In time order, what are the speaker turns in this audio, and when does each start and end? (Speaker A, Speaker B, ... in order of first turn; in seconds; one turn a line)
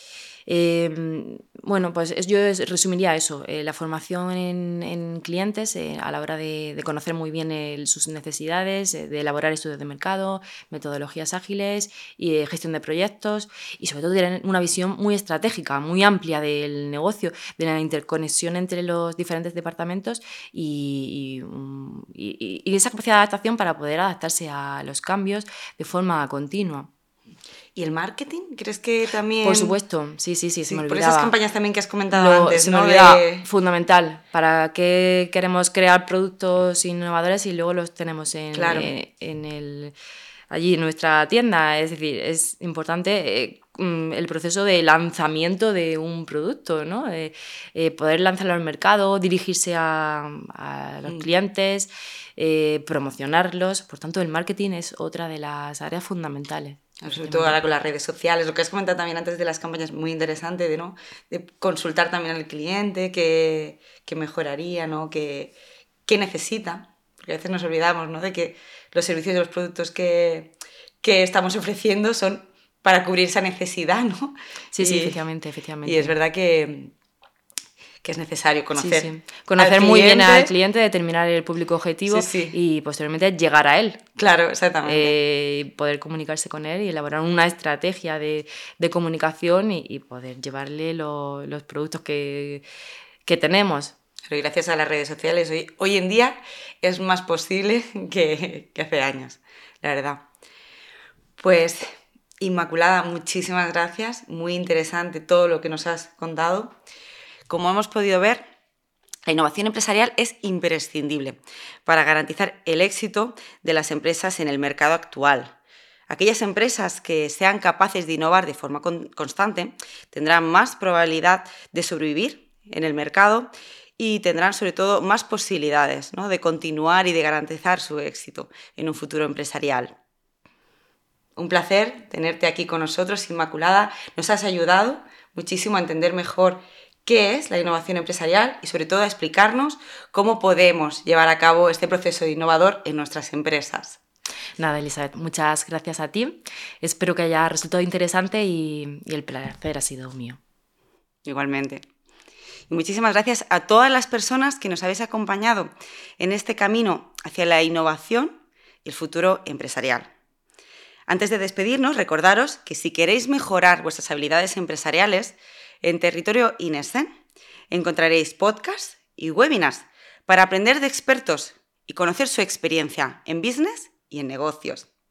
Speaker A: 0.5-26.9
Speaker B: 27.7-29.8
Speaker A: 29.4-31.3
Speaker B: 30.7-33.5
Speaker A: 32.1-39.9
Speaker B: 38.5-38.9
Speaker A: 40.5-57.6
Speaker B: 57.0-65.5
Speaker B: 66.0-75.2
Speaker A: 74.7-76.1
Speaker B: 75.8-76.9
Speaker B: 78.0-80.5
Speaker A: 78.8-84.0
Speaker B: 82.1-82.5
Speaker B: 84.2-85.1
Speaker A: 84.8-92.6
Speaker A: 93.2-93.9
Speaker B: 94.3-100.2
Speaker B: 101.4-101.9
Speaker B: 102.4-106.8
Speaker B: 107.5-108.5
Speaker B: 109.2-115.5
Speaker B: 116.1-129.9
Speaker B: 131.3-144.0
Speaker A: 144.6-150.4
Speaker B: 151.2-151.8
Speaker B: 152.7-160.1
Speaker B: 161.1-167.1
Speaker B: 167.7-174.9